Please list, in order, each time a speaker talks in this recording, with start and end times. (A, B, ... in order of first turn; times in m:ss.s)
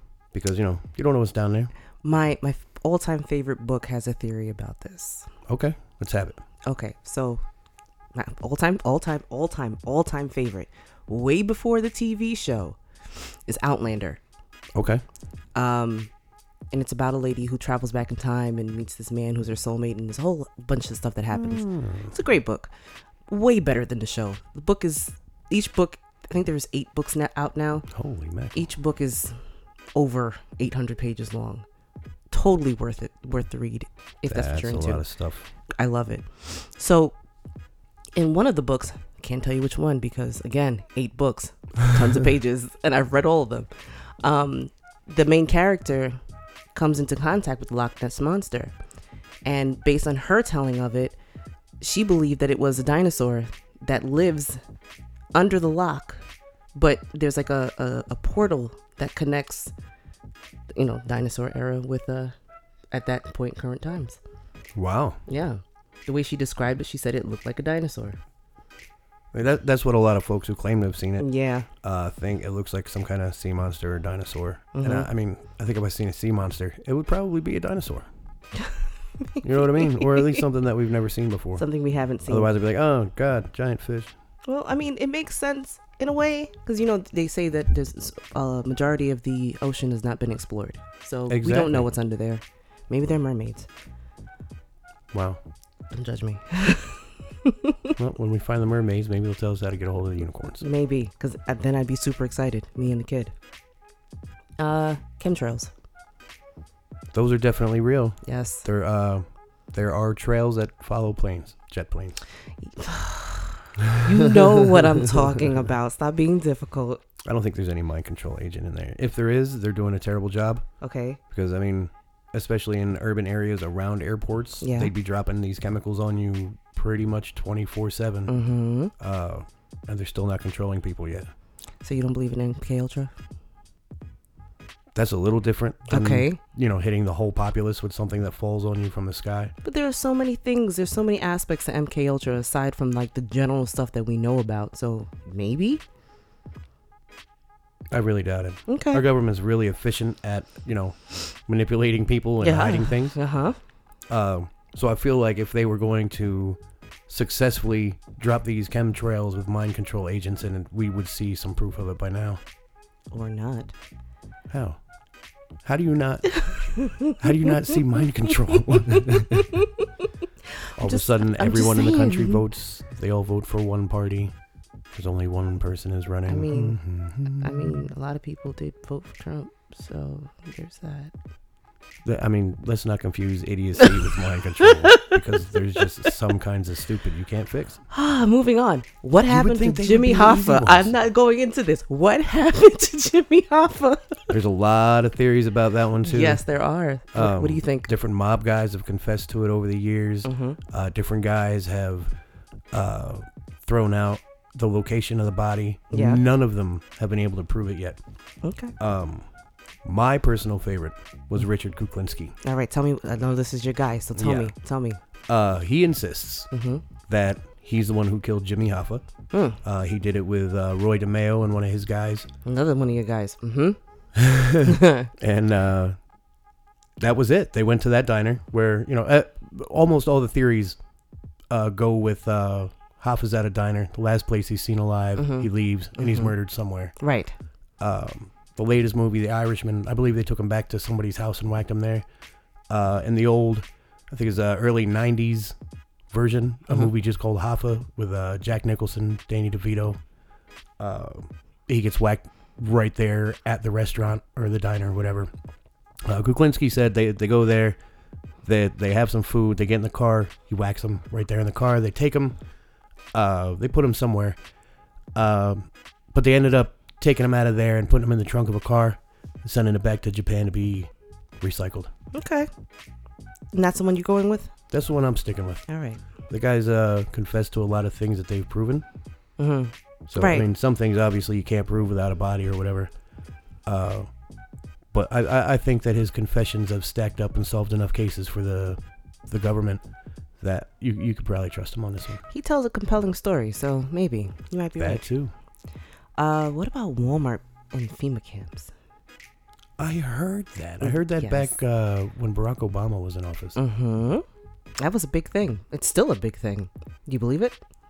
0:00.3-0:01.7 A
0:02.0-0:05.3 B
0:05.5-0:06.4 A
0:06.6-0:07.4 B
0:08.1-0:14.2 B
0:14.7-0:15.0 A
0:15.5-0:16.1 B
0:16.7-0:22.7 B
0:21.3-0:22.1 A
0:23.3-0:27.9 B
0:27.9-0:28.7 A
0:28.5-0:29.4 B
0:29.9-0:31.6 B
0:32.3-0:35.1 B
0:34.3-0:35.4 A
0:35.8-0:37.1 B
0:38.2-0:43.7 B
0:44.2-0:46.2 B
0:46.7-0:48.7 B
0:49.4-0:51.2 B
0:51.8-0:54.6 B
0:55.3-0:56.2 B
0:56.7-0:59.7 B
1:00.7-1:02.3 B
1:02.9-1:04.2 B
1:04.7-1:05.2 A
1:05.3-1:08.2 B
1:09.3-1:11.3 A
1:11.2-1:11.7 B
1:11.8-1:18.1 A
1:14.7-1:15.1 B
1:19.4-1:20.4 B
1:19.4-1:21.6 A
1:21.6-1:22.5 B
1:22.3-1:24.1 A
1:24.5-1:33.7 B
1:31.3-1:31.9 A
1:35.1-1:35.4 A
1:35.9-1:37.9 B
1:38.0-1:40.6 A
1:40.6-1:43.3 B
1:44.6-1:45.7 B
1:47.1-1:52.2 A
1:48.2-1:48.6 B
1:52.6-1:57.0 B
1:53.9-1:54.4 A
1:57.2-2:00.6 A
2:00.8-2:01.2 B
2:01.3-2:08.3 A
2:04.6-2:04.9 B
2:08.3-2:08.9 B
2:09.0-2:11.3 A
2:11.8-2:13.1 B
2:14.9-2:19.5 A
2:15.9-2:16.4 B
2:19.6-2:25.8 B
2:27.9-2:33.2 A
2:28.7-2:29.0 B
2:32.4-2:33.6 B
2:34.1-2:42.4 A
2:43.1-2:43.7 B
2:44.5-2:44.8 A
2:45.6-2:49.5 A
2:46.5-2:47.2 B
2:49.3-2:49.8 B
2:50.8-2:52.4 B
2:50.8-2:54.3 A
2:54.9-2:57.9 A
2:56.3-3:01.1 B
3:02.0-3:07.8 A
3:04.6-3:05.2 B
3:07.9-3:14.3 B
3:09.3-3:10.9 A
3:14.3-3:16.4 A
3:16.0-3:17.9 B
3:17.1-3:22.1 A
3:20.2-3:20.6 B
3:22.7-3:28.0 A
3:25.9-3:26.2 B
3:28.4-3:28.7 B
3:28.8-3:29.2 A
3:29.8-3:32.3 A
3:32.4-3:35.0 B
3:34.1-3:34.5 A
3:35.3-3:36.5 A
3:36.5-3:36.8 B
3:37.1-3:39.0 A
3:39.3-3:39.6 B
3:39.6-3:42.3 A
3:42.4-3:43.8 B
3:44.2-3:46.0 A
3:44.6-3:45.1 B
3:47.0-3:50.8 A
3:51.5-3:56.9 A
3:55.2-3:56.3 B
3:57.0-3:57.3 B
3:57.8-4:02.0 A
4:02.7-4:05.6 A
4:06.1-4:10.0 A
4:10.8-4:15.3 A
4:16.0-4:17.8 A
4:18.4-4:22.4 A
4:23.1-4:24.4 A
4:25.1-4:31.9 A
4:32.1-4:32.5 B
4:33.5-4:34.5 B
4:34.7-4:35.7 A
4:35.7-4:36.0 B
4:36.2-4:38.8 A
4:39.4-4:40.5 B
4:40.1-4:42.9 A
4:43.6-4:44.1 A
4:44.9-4:49.8 A
4:50.4-4:52.2 A
4:52.3-4:55.0 B
4:54.8-4:55.3 A
4:56.2-4:58.7 B
4:59.8-5:03.6 A
5:00.8-5:01.6 B
5:03.6-5:04.2 B
5:04.8-5:07.6 B